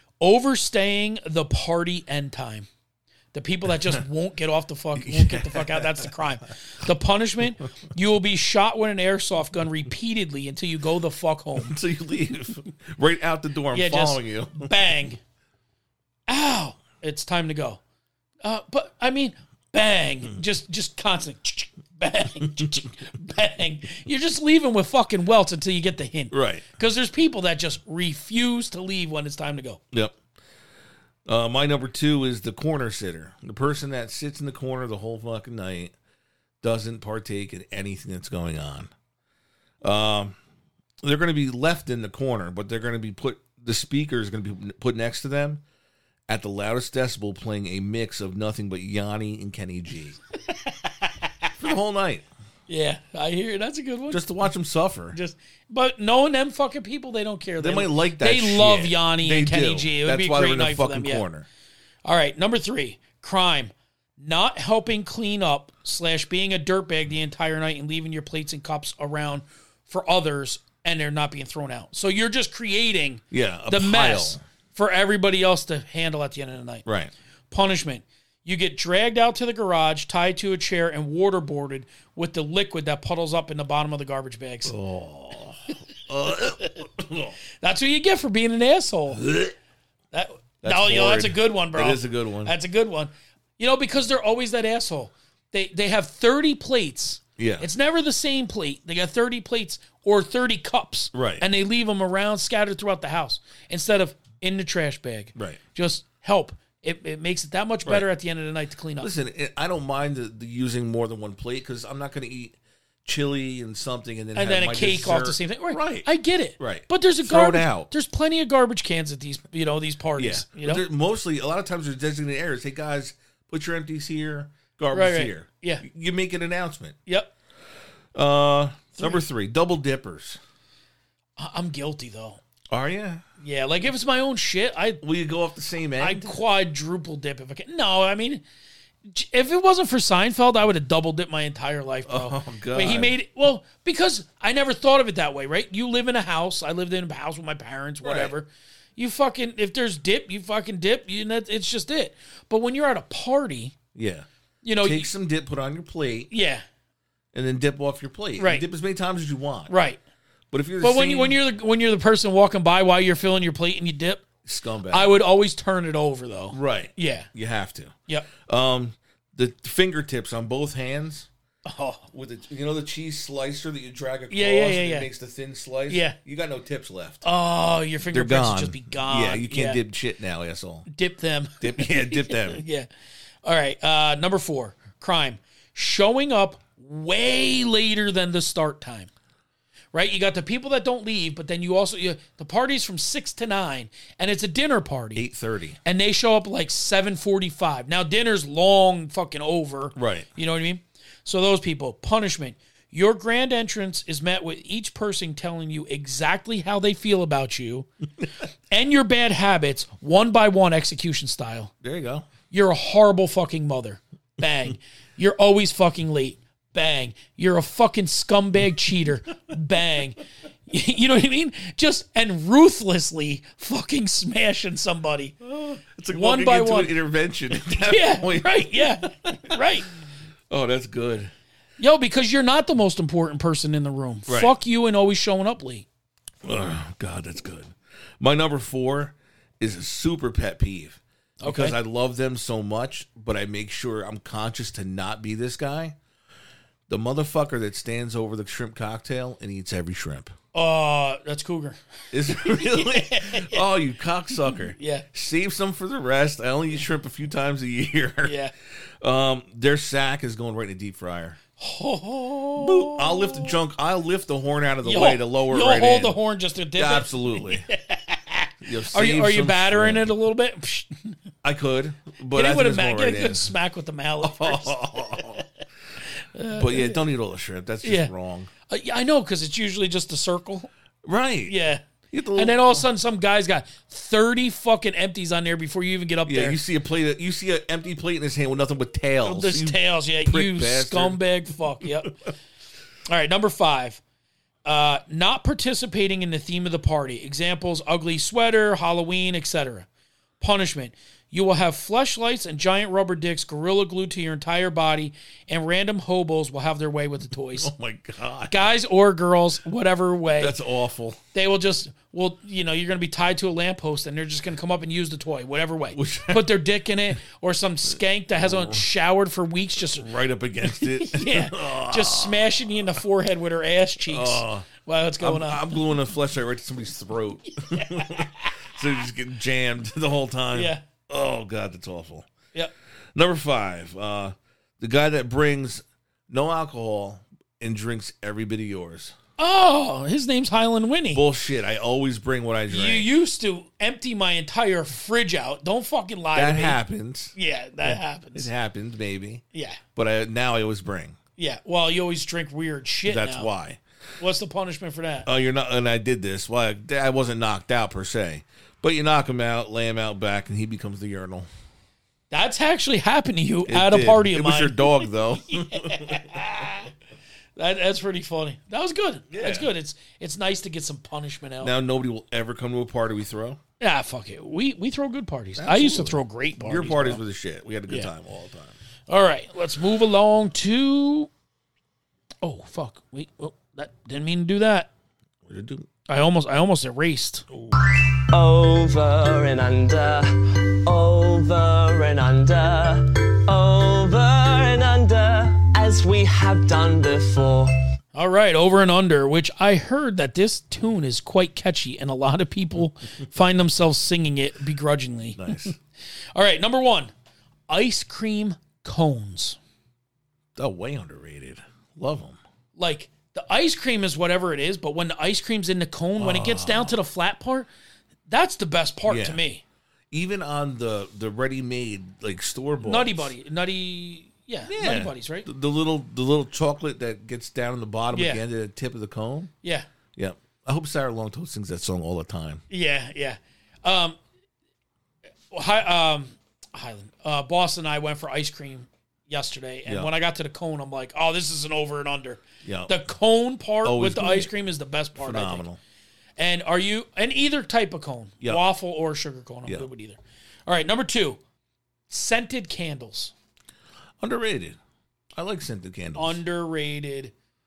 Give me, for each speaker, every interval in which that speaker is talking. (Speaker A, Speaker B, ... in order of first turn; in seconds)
Speaker A: 0.2-2.7, 3.3-11.8, 13.7-15.2, 16.3-17.8, 18.4-29.8, 50.5-51.5, 52.7-54.2, 55.1-61.2, 62.0-76.8, 77.5-84.8, 86.3-86.7, 87.6-89.2, 90.1-109.1, 114.3-120.8, 124.9-125.8, 127.0-127.3, 129.0-129.2, 131.4-132.4, 133.4-135.0, 136.0-138.4, 139.1-153.7, 154.6-155.1, 156.3-156.6, 158.4-158.6, 159.7-160.0, 160.8-164.2, 164.9-167.3, 171.7-172.1, 174.3-175.1, 175.9-176.2, 177.2-179.8, 180.9-182.9, 183.4-189.1, 189.9-195.2, 195.8-207.9, 208.7-211.7, 212.5-225.4, 226.1-227.0, 227.5-229.9, 231.8-235.8, 241.4-241.8, 250.5-253.7, 254.5-255.1, 258.2-258.5, 261.6-263.6, 264.8-271.1, 272.3-275.5, 276.1-277.0, 277.8-278.1, 278.7-280.7, 281.4-286.6, 289.2-292.2, 293.1-294.0, 294.6-299.9, 300.4-307.7, 308.5-310.6, 311.3-320.1, 320.6-325.8, 327.6-328.8, 330.5-330.8, 339.4-341.2, 342.7-346.8, 347.3-348.5, 349.5-349.8, 351.4-353.5, 354.2-355.3, 362.3-364.9, 365.5-366.9, 367.6-371.7, 373.8-377.2, 379.1-381.3, 382.4-384.9, 386.1-387.4, 398.1-405.8, 406.3-407.1, 407.7-409.6, 412.8-417.7, 418.3-419.6, 422.8-425.5, 428.1-428.4, 432.7-434.2, 435.5-445.6, 446.4-451.4, 452.1-453.3, 456.2-457.3
Speaker B: 5.0-6.1, 11.6-14.7, 26.3-26.7, 29.9-30.2, 31.2-35.9, 36.6-38.9, 39.8-40.4, 41.0-45.6, 46.3-50.2, 51.6-52.2, 54.1-55.2, 57.6-61.5, 73.3-74.4, 76.8-77.1, 84.7-87.4, 89.1-89.5, 90.6-92.5, 97.4-97.7, 101.1-101.4, 109.0-117.9, 120.2-127.0, 128.1-130.4, 132.7-133.2, 135.0-136.3, 142.1-143.2, 148.0-148.3, 153.9-154.3, 154.8-156.3, 157.3-159.7, 160.5-161.4, 164.4-165.2, 166.5-171.3, 172.1-177.2, 178.1-180.9, 181.6-182.6, 195.1-195.8, 199.9-200.3, 211.8-212.3, 225.4-229.6, 230.5-231.3, 234.3-234.5, 236.4-245.9, 246.9-250.3, 252.1-258.4, 259.0-261.4, 262.6-266.2, 266.7-267.7, 268.6-270.1, 271.4-273.5, 274.2-275.5, 276.5-278.5, 281.0-281.5, 282.1-282.9, 286.2-291.2, 307.5-308.6, 310.4-311.2, 315.9-316.6, 318.4-318.9, 319.8-322.8, 324.1-324.7, 325.2-332.3, 333.1-339.1, 341.1-343.1, 346.3-349.4, 349.9-351.2, 353.1-353.8, 355.2-361.5, 363.7-366.5, 369.3-369.7, 371.6-373.6, 375.6-378.8, 385.4-385.9, 387.5-387.8, 405.4-405.8, 410.6-412.4, 416.2-417.0, 419.1-419.4, 420.1-423.3, 424.7-429.5, 430.1-432.6, 439.9-440.1, 442.6-442.9, 443.8-444.5, 445.2-445.8, 454.2-454.8, 455.3-456.4
Speaker C: 388.3-397.7